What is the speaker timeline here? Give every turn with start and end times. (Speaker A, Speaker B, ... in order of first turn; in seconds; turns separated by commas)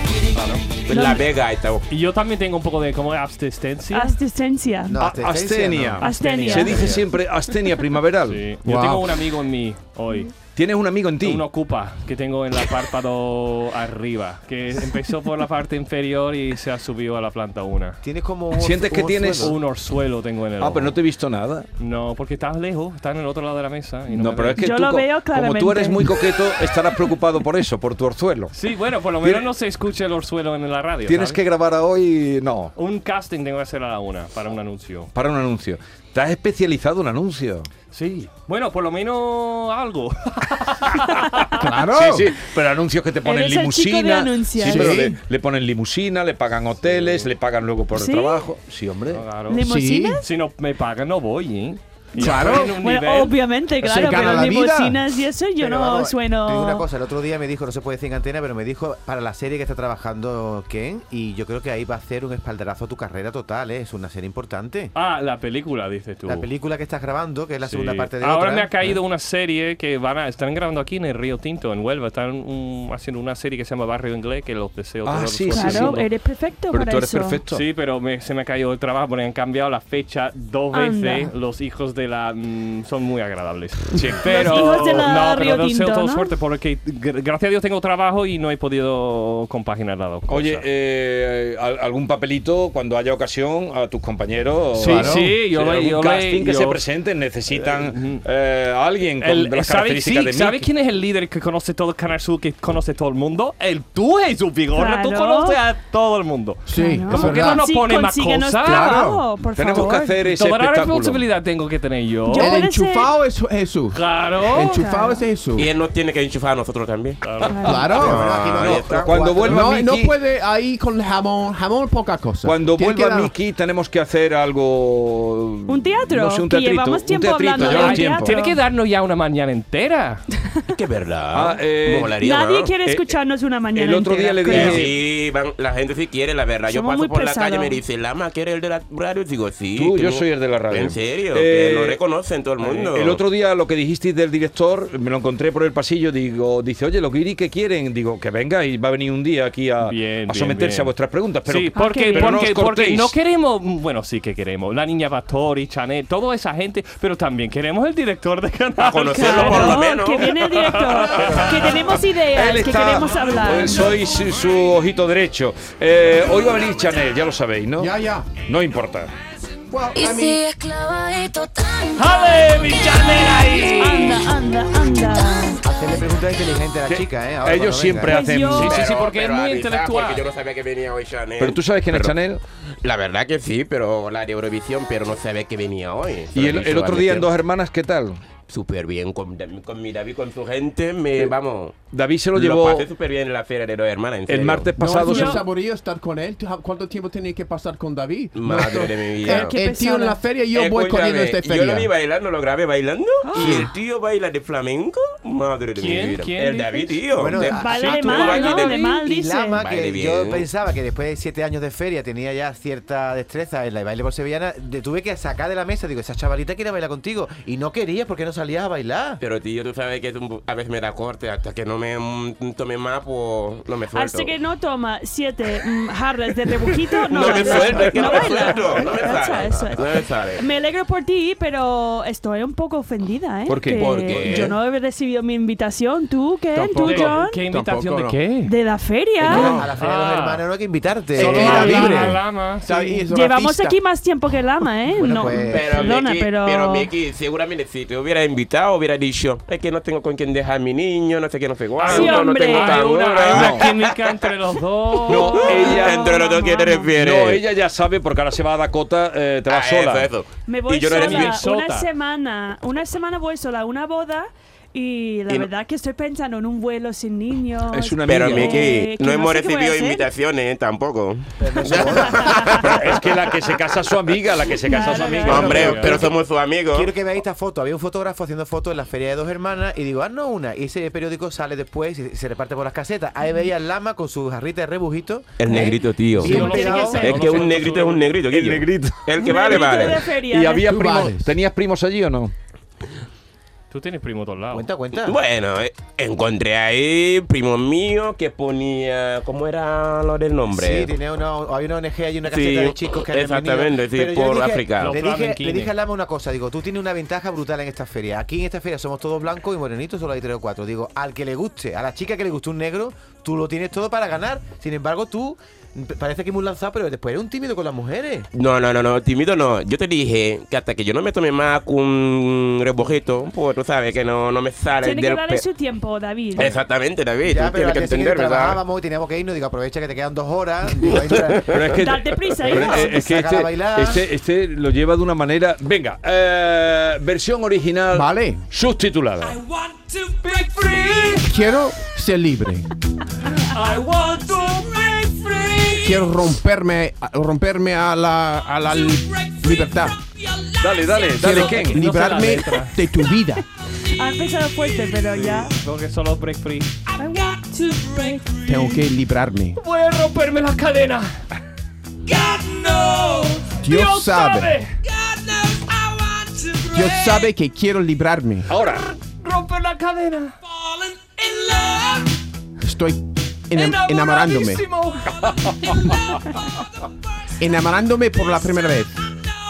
Speaker A: 0.3-0.6, Speaker B: 0.8-1.8, Speaker A: 1.9-4.1, Speaker C: 3.9-5.0, Speaker D: 4.9-6.0, Speaker E: 5.0-9.1, Speaker C: 6.0-6.9, Speaker A: 6.0-7.0, Speaker A: 8.2-10.3, Speaker E: 10.5-11.4, Speaker A: 11.2-18.0, Speaker D: 18.0-19.5, Speaker E: 18.6-19.6, Speaker A: 19.4-21.0, Speaker E: 20.6-21.7, Speaker A: 21.8-24.6, Speaker E: 24.1-28.5, Speaker C: 24.6-26.3, Speaker A: 28.5-31.4, Speaker E: 29.2-29.5, Speaker E: 31.1-32.7, Speaker A: 32.8-35.1, Speaker E: 35.1-37.7, Speaker A: 37.9-41.5, Speaker F: 41.6-42.3, Speaker E: 41.9-49.2, Speaker C: 43.2-44.9, Speaker F: 44.6-45.2, Speaker C: 47.9-48.5, Speaker A: 49.1-49.6, Speaker C: 49.5-50.2, Speaker F: 49.6-50.2, Speaker A: 50.2-53.3, Speaker F: 52.1-52.7, Speaker C: 52.2-56.9, Speaker F: 53.8-55.0, Speaker D: 55.6-64.9, Speaker A: 64.9-66.5, Speaker D: 66.2-68.7, Speaker A: 67.7-76.0, Speaker E: 75.0-76.0, Speaker C: 75.5-77.4, Speaker E: 76.7-77.6, Speaker A: 77.5-90.7, Speaker C: 80.7-81.3, Speaker E: 84.0-84.5, Speaker C: 84.2-86.3, Speaker E: 90.3-100.7, Speaker A: 94.7-96.8, Speaker D: 94.8-95.3, Speaker A: 97.5-98.2, Speaker A: 99.2-109.0, Speaker C: 104.7-105.6, Speaker F: 106.7-107.6, Speaker C: 106.7-110.2, Speaker F: 108.6-109.2, Speaker E: 109.5-111.2, Speaker A: 110.2-112.6, Speaker C: 112.2-113.1, Speaker F: 112.4-115.7, Speaker A: 113.9-114.8, Speaker C: 114.6-115.3, Speaker B: 115.5-117.2, Speaker A: 117.2-118.0, Speaker C: 117.5-118.0, Speaker F: 117.6-118.2, Speaker B: 117.9-119.2, Speaker D: 118.0-119.8, Speaker E: 118.9-120.2, Speaker F: 119.4-123.3, Speaker E: 122.4-128.3, Speaker C: 125.7-128.6, Speaker A: 127.6-130.2, Speaker B: 130.7-132.7, Speaker E: 131.3-132.1, Speaker C: 132.2-134.8, Speaker E: 132.8-133.1, Speaker E: 133.7-134.9, Speaker B: 134.5-143.2, Speaker C: 136.7-137.8, Speaker E: 139.7-142.0, Speaker E: 142.6-153.1, Speaker A: 149.8-150.9, Speaker A: 151.4-161.5, Speaker C: 151.7-152.5, Speaker B: 158.8-160.5, Speaker C: 159.1-163.9, Speaker E: 162.2-169.1, Speaker A: 163.3-163.9, Speaker F: 167.8-168.3, Speaker F: 169.7-170.4, Speaker G: 169.9-173.4, Speaker A: 171.9-174.3, Speaker C: 173.6-175.6, Speaker D: 175.6-178.1, Speaker E: 176.9-178.7, Speaker C: 178.1-178.8, Speaker A: 178.5-180.2, Speaker B: 178.5-182.2, Speaker E: 181.4-182.4, Speaker B: 182.8-187.3, Speaker E: 186.3-188.2, Speaker B: 188.5-191.8, Speaker E: 191.9-192.8, Speaker B: 192.3-194.7, Speaker E: 194.3-195.4, Speaker F: 194.8-201.9, Speaker C: 195.0-195.4, Speaker B: 198.3-199.6, Speaker C: 199.2-200.2, Speaker B: 200.5-208.8, Speaker C: 203.2-203.7, Speaker F: 203.4-203.7, Speaker A: 205.8-206.9, Speaker D: 207.1-208.2, Speaker C: 207.3-209.6, Speaker A: 207.6-208.8, Speaker D: 208.8-219.2, Speaker B: 209.6-210.5, Speaker B: 219.2-224.3, Speaker C: 223.9-237.4, Speaker B: 226.9-230.4, Speaker E: 233.5-234.3, Speaker B: 233.7-234.6, Speaker F: 236.5-238.2, Speaker A: 236.8-238.5, Speaker C: 238.4-239.6, Speaker D: 239.2-242.0, Speaker F: 239.3-239.6, Speaker A: 239.8-240.4, Speaker A: 241.1-243.0, Speaker F: 241.2-243.8, Speaker C: 241.4-242.1, Speaker C: 243.1-246.9, Speaker D: 244.9-245.7, Speaker B: 245.4-253.9, Speaker A: 245.7-245.9, Speaker A: 251.8-255.8, Speaker C: 251.8-252.9, Speaker E: 253.3-253.7, Speaker E: 255.1-256.2, Speaker C: 255.2-256.9, Speaker B: 255.3-257.4, Speaker E: 256.9-260.1, Speaker B: 259.5-261.4, Speaker C: 260.4-270.0, Speaker A: 260.9-261.9, Speaker E: 267.7-268.6, Speaker B: 268.0-273.0, Speaker D: 271.4-272.4, Speaker C: 272.2-272.5, Speaker E: 272.5-276.0, Speaker C: 274.6-275.6, Speaker A: 274.8-276.0, Speaker B: 275.2-276.9, Speaker D: 275.3-276.1, Speaker D: 276.7-287.1, Speaker B: 285.4-290.1, Speaker A: 286.2-288.1, Speaker C: 286.2-287.6, Speaker E: 288.3-289.1, Speaker C: 289.2-290.7, Speaker E: 290.2-292.3, Speaker F: 290.6-291.3, Speaker A: 293.7-294.7, Speaker D: 294.5-295.2, Speaker B: 295.0-300.9, Speaker D: 300.5-318.3, Speaker B: 302.3-305.0, Speaker A: 304.8-305.7, Speaker B: 318.3-325.5, Speaker C: 324.8-326.5, Speaker B: 326.4-328.6, Speaker D: 327.2-331.5, Speaker B: 330.8-331.8, Speaker E: 331.5-339.4, Speaker C: 331.7-333.1, Speaker D: 332.6-334.1, Speaker F: 337.9-338.4, Speaker A: 339.2-341.3, Speaker F: 341.2-342.7, Speaker A: 343.2-346.1, Speaker F: 345.8-350.0, Speaker E: 350.6-351.8, Speaker A: 351.1-352.8, Speaker F: 351.2-353.4, Speaker C: 353.8-355.5, Speaker A: 355.1-356.9, Speaker C: 357.0-358.4, Speaker A: 357.8-358.7, Speaker F: 358.5-359.6, Speaker A: 359.6-361.2, Speaker A: 362.1-367.3, Speaker F: 363.6-364.5, Speaker F: 366.7-368.5, Speaker E: 368.5-368.9, Speaker A: 368.6-372.1, Speaker F: 372.6-374.6, Speaker A: 373.5-376.1, Speaker E: 375.1-376.2, Speaker F: 377.4-378.9